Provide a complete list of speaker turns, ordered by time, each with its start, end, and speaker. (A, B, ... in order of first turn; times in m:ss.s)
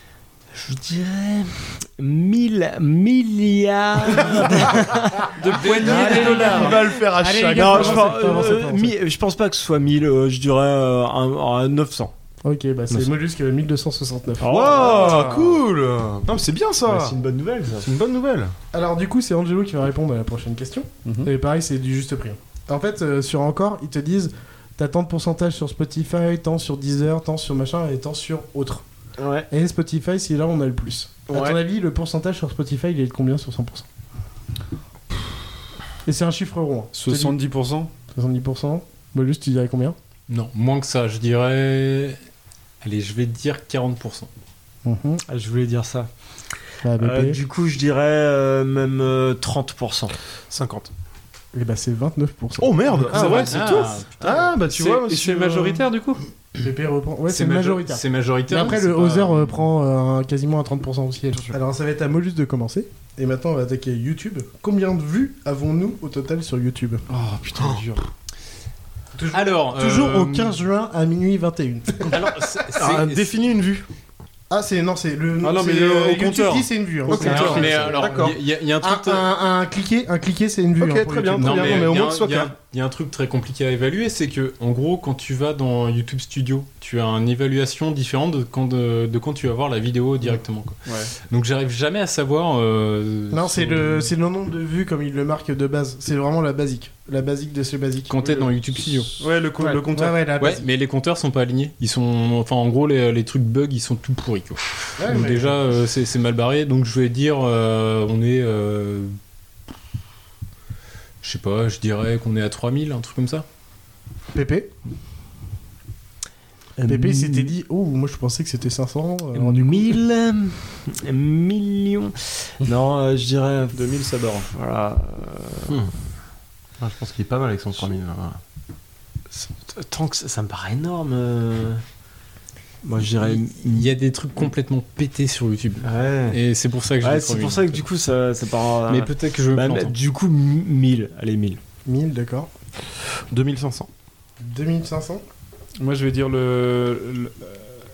0:00.5-0:05.3 A
0:05.4-0:06.8 B
0:05.6-0:06.7 C
0:05.7-0:08.1 D
0:07.2-0:09.0 E
0:07.4-0:12.1 A
0:12.4-0:14.6 E
0:14.4-0:15.3 A
0:14.5-0:17.2 D
0:15.0-0:15.5 B
0:16.9-0:17.9 A
0:17.8-0:18.5 D
0:18.7-0:28.8 E
0:29.2-0:29.5 A
0:29.5-0:33.9 E
0:31.3-0:31.6 A
0:36.0-0:37.4 E
0:37.0-0:37.9 B
0:38.1-0:40.0 E
0:40.3-0:42.2 C
0:42.8-0:44.3 C
0:44.8-0:45.2 E
0:45.3-0:46.1 A
0:46.8-0:47.4 E
0:47.0-0:50.1 A
0:50.5-0:50.9 D
0:51.5-0:53.5 E
0:52.6-0:55.9 D
0:53.1-0:53.9 B
0:53.2-0:54.1 C
0:54.6-0:56.2 B
0:56.6-1:07.0 E
0:57.3-0:59.7 C
1:07.1-1:08.0 B
1:07.6-1:07.8 D
1:09.2-1:12.2 E
1:09.3-1:10.6 C
1:12.1-1:13.3 C
1:12.2-1:13.9 D
1:14.5-1:18.3 E
1:15.4-1:17.6 B
1:17.1-1:18.4 D
1:17.1-1:19.3 C
1:18.8-1:21.9 E
1:20.8-1:22.5 D
1:21.4-1:34.1 C
1:30.9-1:31.1 B
1:33.3-1:38.5 E
1:38.1-1:39.2 C
1:39.2-1:40.2 B
1:39.6-1:40.7 E
1:40.4-1:49.2 C
1:45.0-1:45.6 E
1:51.2-1:53.5 C
1:54.3-1:54.7 E
1:56.8-1:57.5 A
1:56.9-2:00.0 E
1:59.3-2:05.9 A
2:03.7-2:04.5 B
2:06.8-2:08.4 D
2:09.3-2:11.8 A
2:12.8-2:13.9 A
2:13.2-2:17.9 C
2:15.9-2:16.4 A
2:17.0-2:21.6 A
2:18.9-2:20.0 C
2:21.9-2:22.5 E
2:23.3-2:23.9 D
2:24.4-2:25.2 E
2:25.8-2:27.8 B